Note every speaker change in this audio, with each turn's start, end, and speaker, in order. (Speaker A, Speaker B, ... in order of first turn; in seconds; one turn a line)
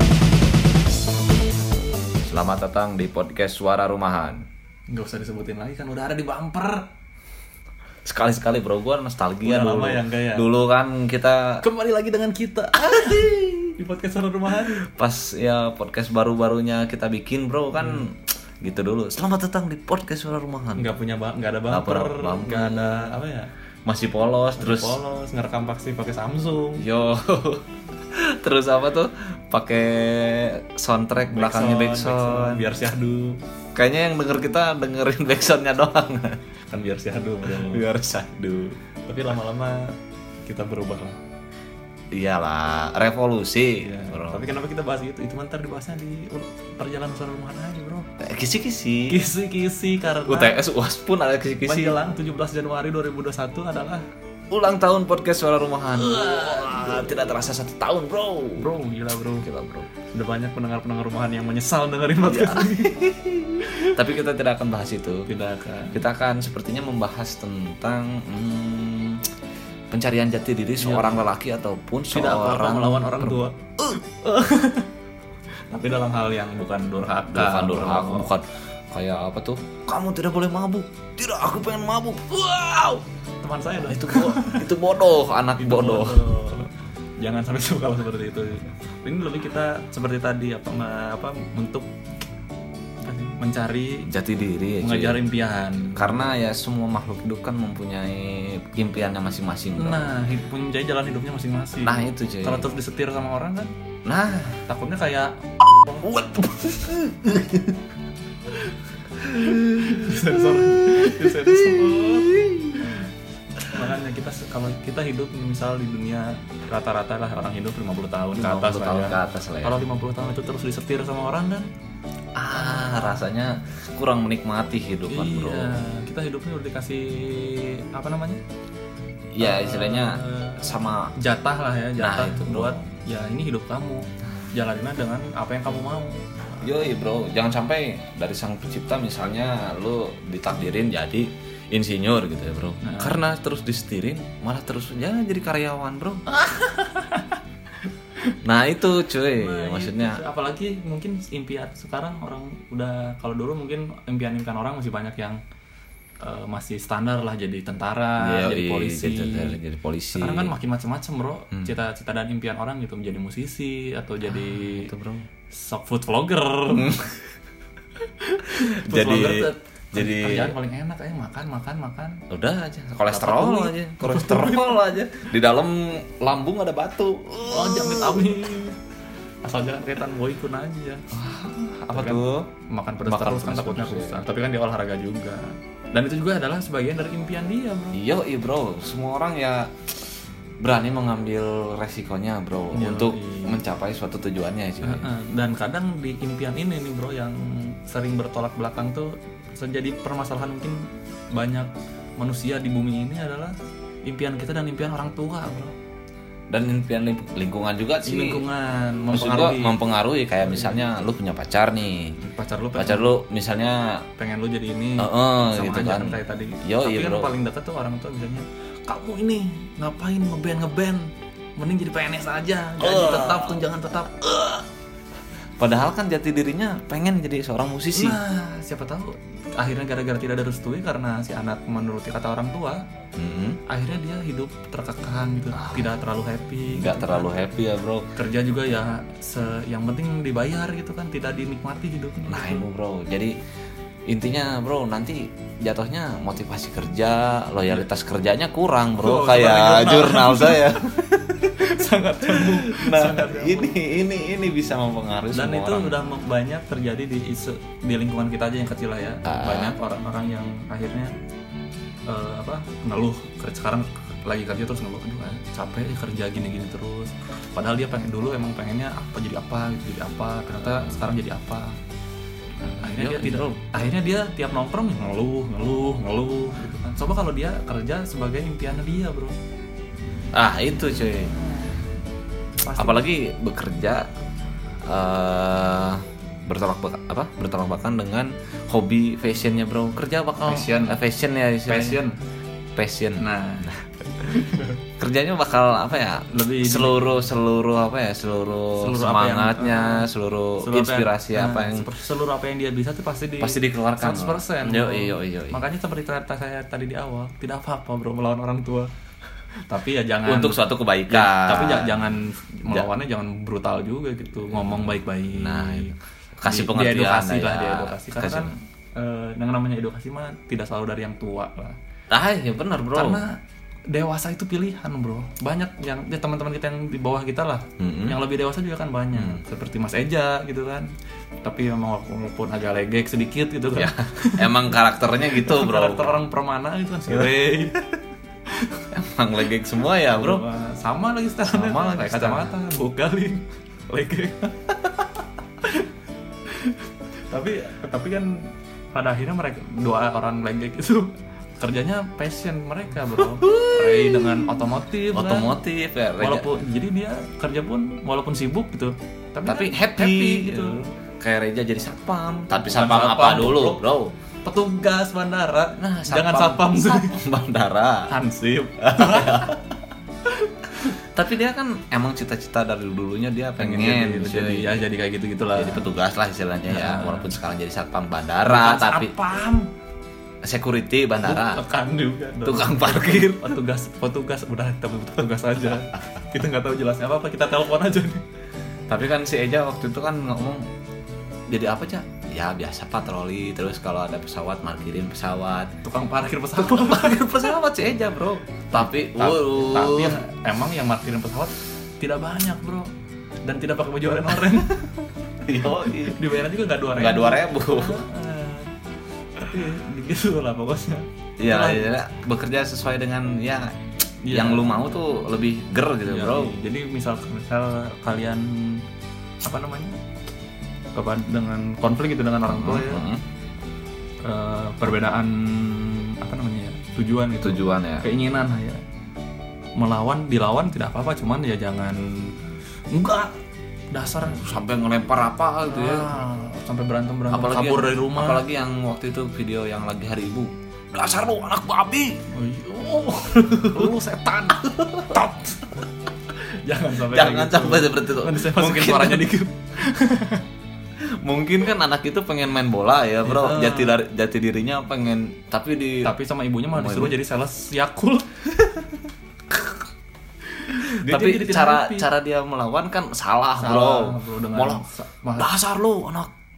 Speaker A: 2.2-4.5
Speaker B: 4.9-6.9
Speaker A: 8.1-11.6
Speaker B: 9.4-10.5
Speaker B: 11.6-14.9
Speaker A: 12.8-13.7
Speaker A: 14.7-20.9
Speaker B: 17.8-18.0
Speaker B: 20.8-23.5
Speaker A: 21.7-23.2
Speaker A: 23.9-25.0
Speaker B: 24.6-26.9
Speaker A: 26.8-32.7
Speaker B: 31.3-33.4
Speaker A: 33.8-36.4
Speaker B: 36.7-37.9
Speaker A: 37.5-38.8
Speaker B: 39.1-41.2
Speaker A: 42.1-44.4
Speaker B: 43.8-48.1
Speaker A: 48.2-49.2
Speaker B: 49.1-50.6
Speaker A: 50.3-52.0
Speaker B: 51.6-54.1
Speaker A: 54.5-58.7
Speaker B: 55.9-57.3
Speaker B: 58.6-59.5
Speaker A: 59.4-59.9
Speaker B: 60.1-63.0
Speaker A: 62.2-65.3
Speaker B: 63.6-64.0
Speaker B: 65.3-66.0
Speaker A: 65.9-69.3
Speaker A: 69.9-74.0
Speaker B: 70.8-71.3
Speaker B: 72.1-74.9
Speaker B: 75.7-78.3
Speaker A: 77.3-83.0
Speaker B: 83.4-84.7
Speaker A: 83.8-86.3
Speaker B: 85.6-91.9
Speaker B: 93.0-94.1
Speaker A: 94.1-95.2
Speaker B: 94.8-96.3
Speaker A: 96.0-100.1
Speaker B: 99.8-103.7
Speaker A: 101.8-102.7
Speaker A: 104.0-104.6
Speaker B: 104.7-106.1
Speaker A: 106.0-107.8
Speaker A: 109.2-113.0
Speaker B: 109.2-113.0
Speaker B: 113.7-121.7
Speaker A: 118.4-119.8
Speaker A: 122.4-125.8
Speaker B: 122.5-123.3
Speaker B: 125.1-128.4
Speaker A: 129.3-131.2
Speaker B: 129.4-136.6
Speaker A: 132.0-132.8
Speaker A: 136.6-146.2
Speaker B: 142.8-143.2
Speaker B: 146.3-148.4
Speaker A: 148.4-150.2
Speaker B: 149.2-155.4
Speaker B: 156.2-159.6
Speaker A: 158.2-160.5
Speaker B: 160.1-164.9
Speaker A: 164.2-165.3
Speaker B: 165.5-167.1
Speaker A: 166.7-167.1
Speaker B: 168.0-172.2
Speaker A: 168.5-170.6
Speaker A: 172.3-178.4
Speaker B: 173.1-174.9
Speaker B: 177.5-178.8
Speaker B: 179.4-181.1
Speaker A: 181.1-182.5
Speaker B: 181.9-188.0
Speaker A: 183.1-184.2
Speaker A: 187.9-190.0
Speaker A: 190.6-195.1
Speaker B: 192.7-193.6
Speaker B: 194.8-203.6
Speaker B: 204.1-205.7
Speaker A: 206.5-208.4
Speaker B: 208.1-209.8
Speaker A: 209.1-212.2
Speaker B: 210.4-210.8
Speaker B: 212.2-213.2
Speaker A: 212.8-214.1
Speaker B: 214.2-224.6
Speaker A: 215.0-217.3
Speaker A: 222.8-223.6
Speaker A: 225.6-228.2
Speaker B: 227.9-232.8
Speaker A: 233.2-233.6
Speaker B: 233.7-237.5
Speaker A: 235.5-235.9
Speaker A: 236.7-238.1
Speaker B: 238.2-242.7
Speaker A: 242.3-243.3
Speaker A: 244.1-251.1
Speaker B: 249.0-253.8
Speaker A: 252.2-256.0
Speaker B: 255.3-261.1
Speaker A: 259.2-259.8
Speaker B: 262.1-271.8
Speaker A: 272.6-273.6
Speaker B: 272.8-279.4
Speaker A: 280.3-281.3
Speaker B: 282.6-283.0
Speaker A: 282.8-284.1
Speaker A: 284.9-292.0
Speaker B: 290.4-291.0
Speaker B: 291.7-292.2
Speaker A: 292.8-301.9
Speaker B: 293.2-293.7
Speaker B: 294.3-294.8
Speaker B: 296.3-297.3
Speaker B: 298.8-300.1
Speaker B: 300.6-308.9
Speaker A: 303.4-305.6
Speaker B: 309.7-321.8
Speaker A: 310.3-312.1
Speaker A: 314.5-318.5
Speaker A: 322.1-323.2
Speaker B: 322.9-330.9
Speaker A: 327.8-328.2
Speaker A: 329.1-329.4
Speaker B: 331.4-334.7
Speaker A: 333.7-336.2
Speaker B: 335.3-337.9
Speaker B: 338.5-338.9
Speaker A: 338.9-340.4
Speaker B: 340.1-345.9
Speaker A: 341.4-342.5
Speaker B: 346.5-355.6
Speaker A: 353.2-356.5
Speaker B: 356.2-360.8
Speaker A: 359.5-364.1
Speaker B: 362.6-363.8
Speaker B: 364.4-367.2
Speaker A: 365.8-368.1
Speaker B: 368.1-369.6
Speaker A: 368.8-369.6
Speaker B: 370.3-370.9
Speaker A: 370.9-374.8
Speaker B: 373.6-375.9
Speaker A: 375.6-379.1
Speaker B: 376.7-377.4
Speaker B: 378.4-379.7
Speaker A: 380.4-381.6
Speaker B: 381.2-388.2
Speaker A: 382.4-383.5
Speaker A: 388.9-390.7
Speaker A: 391.5-395.7
Speaker B: 395.8-397.5
Speaker A: 396.6-400.2
Speaker B: 398.7-402.9
Speaker B: 403.4-408.7
Speaker A: 405.4-406.4
Speaker A: 406.9-408.0
Speaker B: 409.4-411.9
Speaker A: 411.4-413.8
Speaker B: 414.2-415.0
Speaker A: 414.3-416.6
Speaker B: 416.1-418.9
Speaker B: 419.4-420.0
Speaker B: 420.9-423.1
Speaker A: 422.5-423.2
Speaker B: 424.2-428.8
Speaker A: 427.4-428.1
Speaker B: 429.8-432.3
Speaker B: 432.9-433.4
Speaker B: 433.9-434.6
Speaker A: 434.2-436.1
Speaker B: 435.7-438.4
Speaker A: 437.3-442.2
Speaker B: 442.3-450.4
Speaker A: 443.5-444.0
Speaker A: 447.1-449.4
Speaker A: 451.2-456.1
Speaker B: 453.2-454.0
Speaker B: 456.0-459.1
Speaker A: 456.7-457.2
Speaker B: 460.5-462.1
Speaker A: 460.9-464.9
Speaker B: 463.6-465.5
Speaker A: 465.4-466.3